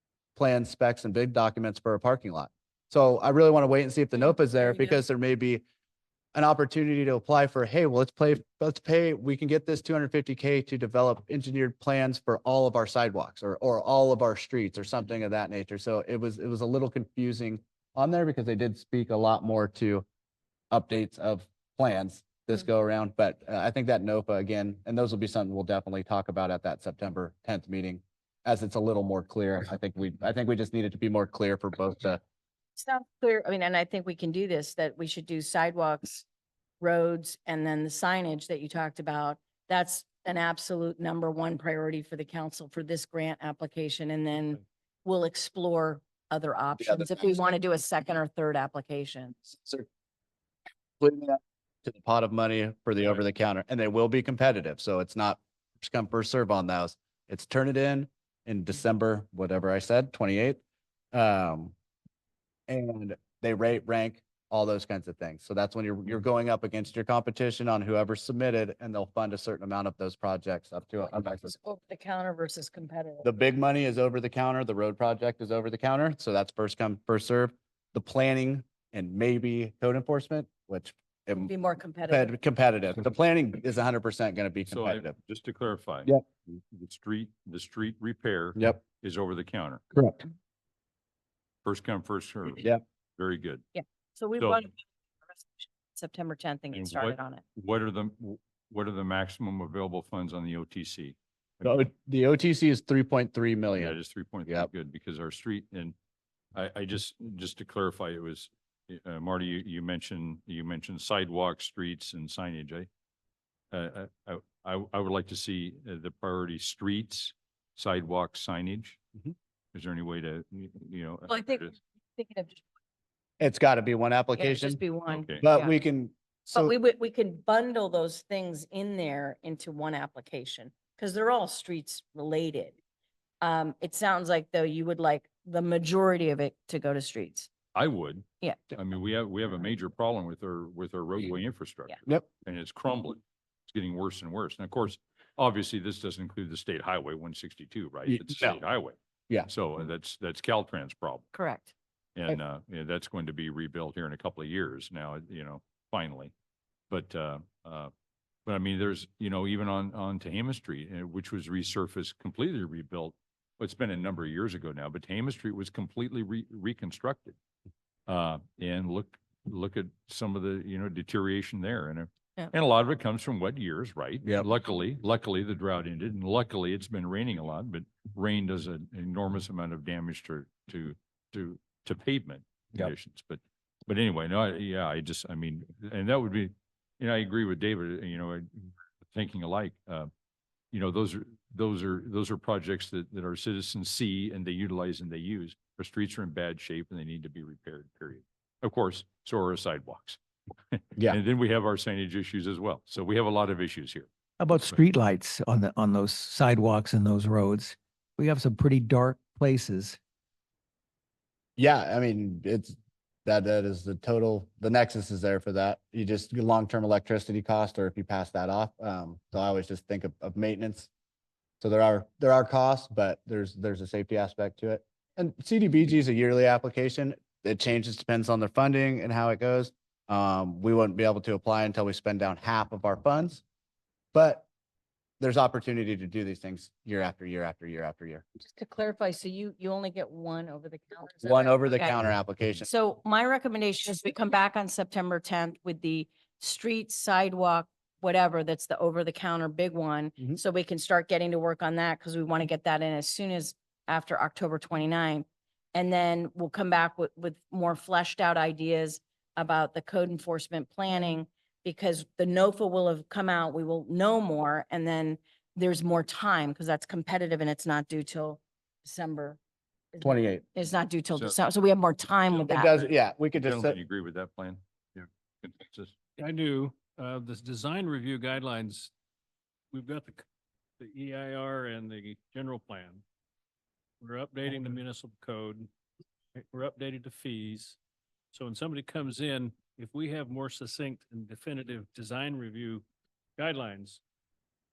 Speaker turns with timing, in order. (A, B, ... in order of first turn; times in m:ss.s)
0:00.4-0:05.6 A
0:04.2-0:04.9 B
0:06.3-0:20.0 A
0:20.7-0:32.2 A
0:32.8-0:36.2 B
0:36.8-0:49.4 B
0:46.8-0:47.3 A
0:49.4-0:49.8 A
0:51.0-1:00.6 A
1:01.1-1:01.7 A
1:02.7-1:11.5 A
1:11.4-1:13.2 B
1:13.2-1:21.5 A
1:21.4-1:22.3 B
1:22.1-1:25.1 A
1:24.7-1:29.8 C
1:29.9-1:30.2 A
1:31.6-1:33.6 C
1:33.7-1:37.4 B
1:36.7-1:41.8 C
1:41.6-1:44.7 A
1:43.8-1:45.9 C
1:46.5-1:52.9 C
1:53.7-1:59.0 C
1:59.7-2:01.7 C
2:01.3-2:02.6 B
2:03.4-2:04.8 A
2:04.4-2:05.8 B
2:05.1-2:05.4 C
2:05.4-2:06.7 A
2:06.5-2:12.7 B
2:13.4-2:17.5 B
2:17.7-2:31.3 C
2:18.4-2:18.7 B
2:28.1-2:28.6 A
2:31.3-2:31.7 B
2:32.2-2:36.3 C
2:36.9-2:37.9 C
2:38.4-2:47.4 C
2:48.1-3:10.1 C
3:10.7-3:20.2 C
3:20.7-3:24.8 C
3:24.4-3:30.0 D
3:31.6-3:40.9 A
3:41.6-3:53.4 A
3:54.1-3:54.5 A
3:55.2-3:58.2 A
3:58.4-4:02.0 B
4:01.2-4:02.7 A
4:02.6-4:29.4 B
4:29.9-4:32.8 B
4:30.0-4:30.5 A
4:32.5-4:33.8 A
4:33.4-4:35.9 C
4:36.2-4:38.9 E
4:39.7-4:40.2 E
4:40.8-4:43.0 E
4:44.0-4:45.7 E
4:46.4-4:47.8 E
4:48.3-4:52.8 E
4:53.4-4:54.0 E